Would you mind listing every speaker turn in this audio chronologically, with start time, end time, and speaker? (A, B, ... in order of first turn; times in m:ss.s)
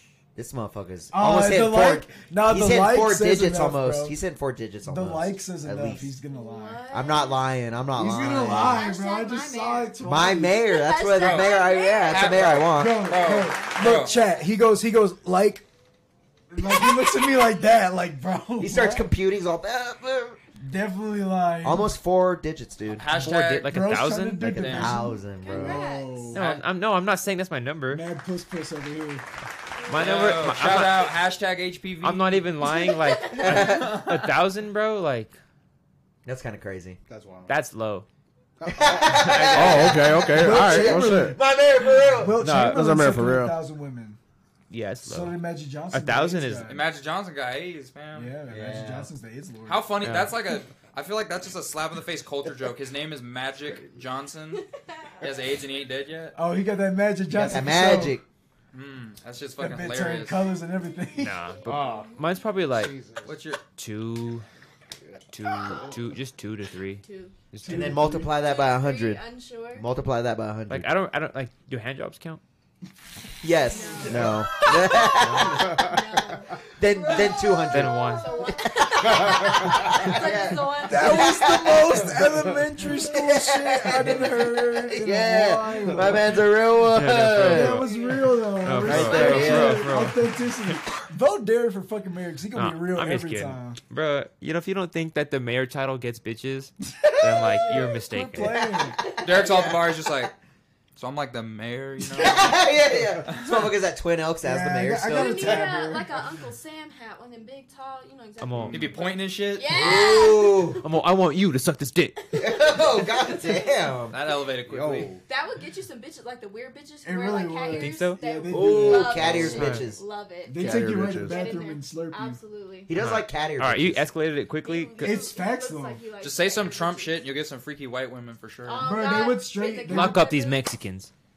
0:00.3-0:06.1 A
0:01.1-0:04.2 B
0:04.8-0:06.9 B
0:06.3-0:07.5 C
0:06.9-0:08.9 A
0:07.9-0:10.6 B
0:08.2-0:12.6 C
0:10.0-0:13.2 A
0:11.2-0:14.2 D
0:12.6-0:15.6 B
0:13.1-0:14.5 C
0:16.5-0:19.1 B
0:16.7-0:17.0 C
0:18.6-0:20.4 A
0:20.6-0:21.9 B
0:21.6-0:23.0 A
0:22.9-0:23.7 D
0:23.1-0:24.8 E
0:23.2-0:26.4 B
0:24.4-0:25.9 A
0:24.4-0:24.9 D
0:25.3-0:26.4 C
0:26.3-0:28.0 E
0:26.3-0:26.6 D
0:27.8-0:29.2 B
0:29.8-0:30.2 C
0:29.8-0:31.2 E
0:30.0-0:32.5 D
0:32.0-0:35.4 E
0:32.6-0:33.4 C
0:33.3-0:34.4 D
0:33.4-0:34.0 A
0:36.2-0:37.0 A
0:37.1-0:37.5 F
0:37.5-0:38.0 E
0:38.6-0:41.4 F
0:38.7-0:42.4 A
0:39.2-0:40.0 E
0:40.3-0:41.4 B
0:42.1-0:44.2 B
0:42.4-0:42.8 E
0:42.5-0:43.6 F
0:44.7-0:45.4 E
0:45.0-0:46.8 B
0:45.9-0:46.8 E
0:46.7-0:48.3 D
0:48.1-0:49.9 B
0:48.5-0:49.1 A
0:49.6-0:54.6 D
0:50.0-0:50.4 E
0:54.7-0:55.3 C
0:55.2-0:56.4 D
0:56.3-0:58.2 B
0:57.3-0:58.2 A
0:58.7-1:00.6 D
0:59.6-1:01.5 B
1:00.7-1:02.4 C
1:01.2-1:03.0 E
1:01.7-1:02.2 F
1:02.8-1:03.3 F
1:03.2-1:03.6 D
1:03.6-1:04.4 E
1:05.3-1:08.2 E
1:07.0-1:07.4 C
1:07.6-1:08.3 B
1:07.6-1:10.9 A
1:08.3-1:09.9 C
1:10.7-1:12.4 E
1:13.4-1:15.9 A
1:13.7-1:22.0 C
1:13.9-1:14.4 B
1:16.8-1:27.8 A
1:17.7-1:18.3 E
1:20.8-1:26.5 B
1:26.8-1:27.9 E
1:27.3-1:33.8 B
1:27.6-1:29.6 C
1:28.5-1:30.3 E
1:28.8-1:30.0 A
1:32.5-1:38.6 E
1:37.3-1:37.7 A
1:37.3-1:39.0 B
1:38.3-1:40.3 A
1:39.2-1:40.3 D
1:41.0-1:42.6 D
1:42.1-1:45.7 A
1:43.3-1:43.7 D
1:44.4-1:46.2 B
1:45.1-1:50.8 C
1:48.4-1:48.9 E
1:48.7-1:50.0 D
1:49.7-1:50.9 A
1:50.8-1:52.2 E
1:52.2-1:53.9 C
1:52.4-1:54.2 A
1:54.1-1:55.1 D
1:54.6-1:55.2 F
1:55.3-2:02.9 C
1:57.0-1:59.7 B
1:57.7-1:58.2 E
1:58.4-2:00.0 A
1:59.2-1:59.6 F
1:59.4-1:59.8 E
2:00.4-2:02.4 B
2:00.5-2:01.5 F
2:02.9-2:04.1 A
2:02.9-2:05.3 E
2:04.6-2:07.2 C
2:05.0-2:06.0 B
2:06.2-2:08.8 D
2:08.6-2:10.6 C
2:08.8-2:10.3 B
2:09.9-2:11.1 E